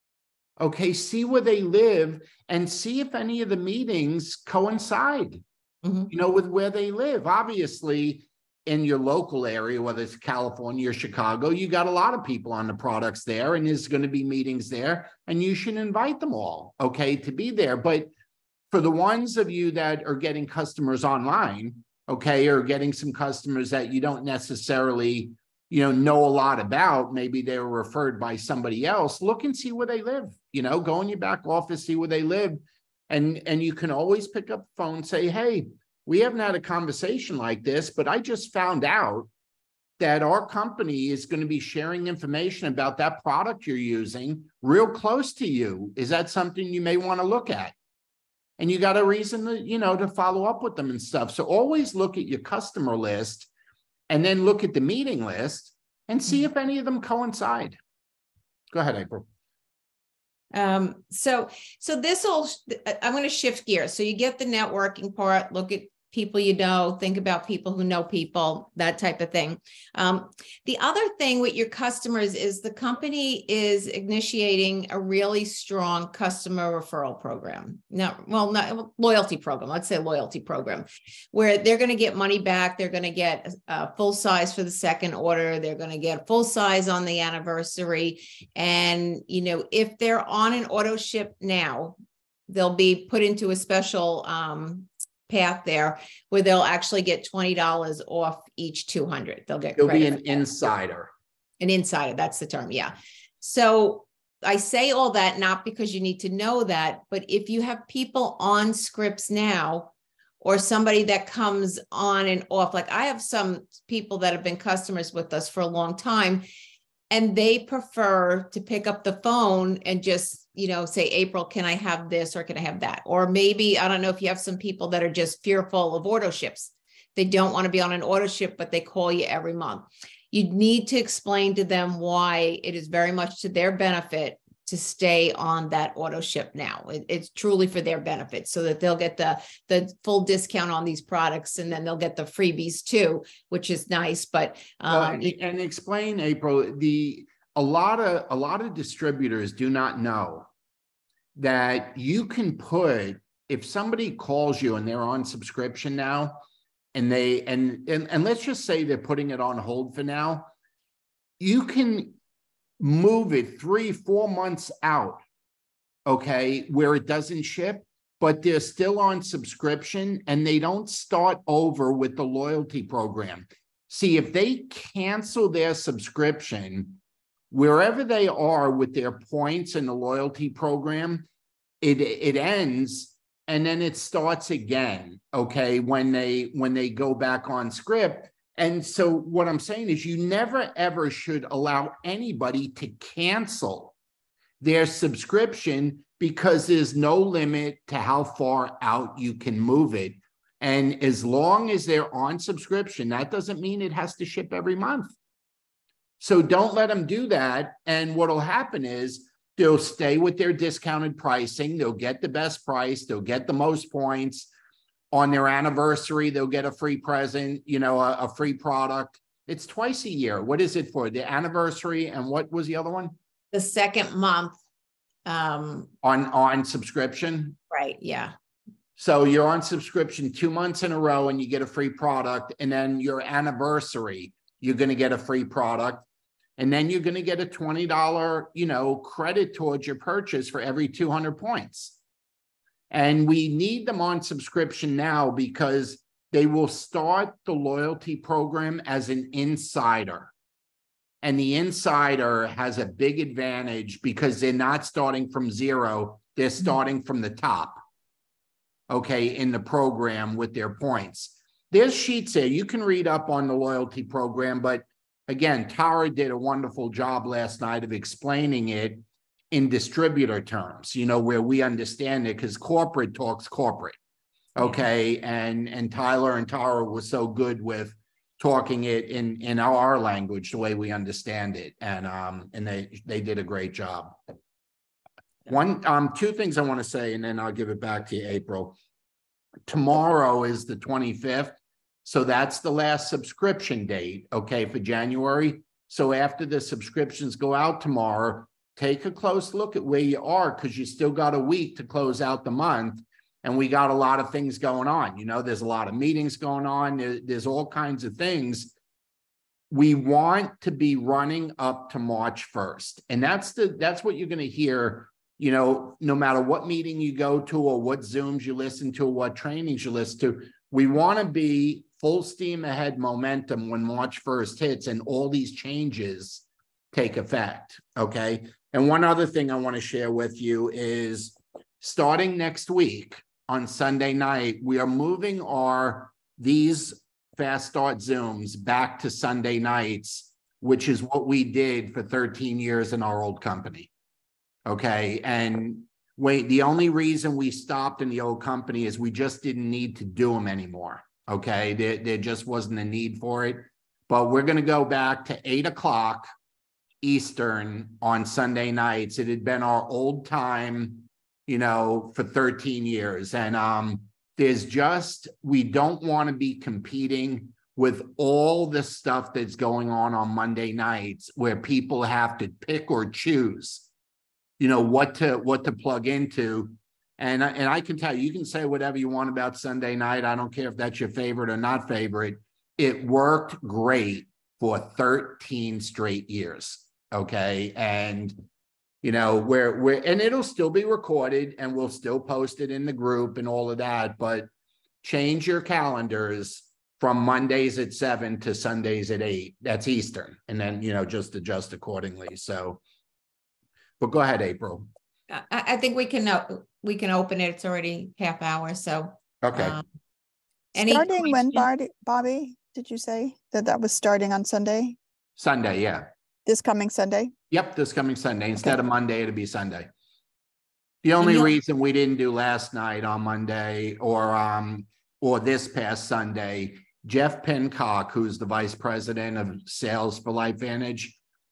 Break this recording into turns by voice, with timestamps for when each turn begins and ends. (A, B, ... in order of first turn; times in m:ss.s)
0:00.6-0:05.4 A
0:05.8-0:06.1 B
0:06.1-0:18.1 A
0:18.7-0:39.3 A
0:40.0-0:47.8 A
0:48.6-0:53.5 A
0:54.1-0:57.8 A
0:58.7-0:59.2 A
1:00.5-1:32.0 B
1:32.5-1:40.5 B
1:39.8-1:41.1 A
1:41.6-1:56.4 B
1:57.1-2:25.3 B
2:24.9-2:30.5 A
2:31.4-2:40.5 A
2:41.4-2:42.2 A
2:42.8-2:45.2 A
2:46.1-2:57.0 A
2:57.5-3:01.3 A
3:01.8-3:13.9 A
3:14.6-3:25.1 A
3:26.2-3:34.5 A
3:35.1-3:43.2 A
3:43.5-3:44.6 B
3:45.3-3:45.9 B
3:46.0-3:47.6 A
3:47.7-3:48.3 B
3:49.0-3:56.1 A
3:56.6-4:02.0 A
4:02.9-4:10.3 A
4:11.2-4:17.8 A
4:18.9-4:34.0 A
4:34.6-4:44.2 A
4:45.5-4:48.8 A
4:49.7-5:08.7 A
5:09.7-5:43.9 A
5:44.7-5:56.3 A
5:57.0-6:13.9 A
6:14.6-6:28.4 A
6:29.0-6:34.5 A
6:35.0-6:42.8 A
6:44.0-6:44.9 A
6:45.3-6:49.8 B
6:49.4-6:49.8 A
6:50.8-6:51.7 B
6:50.8-6:55.0 C
6:55.4-6:56.1 A
6:56.5-6:57.3 C
6:57.5-6:59.9 A
7:01.0-7:11.2 A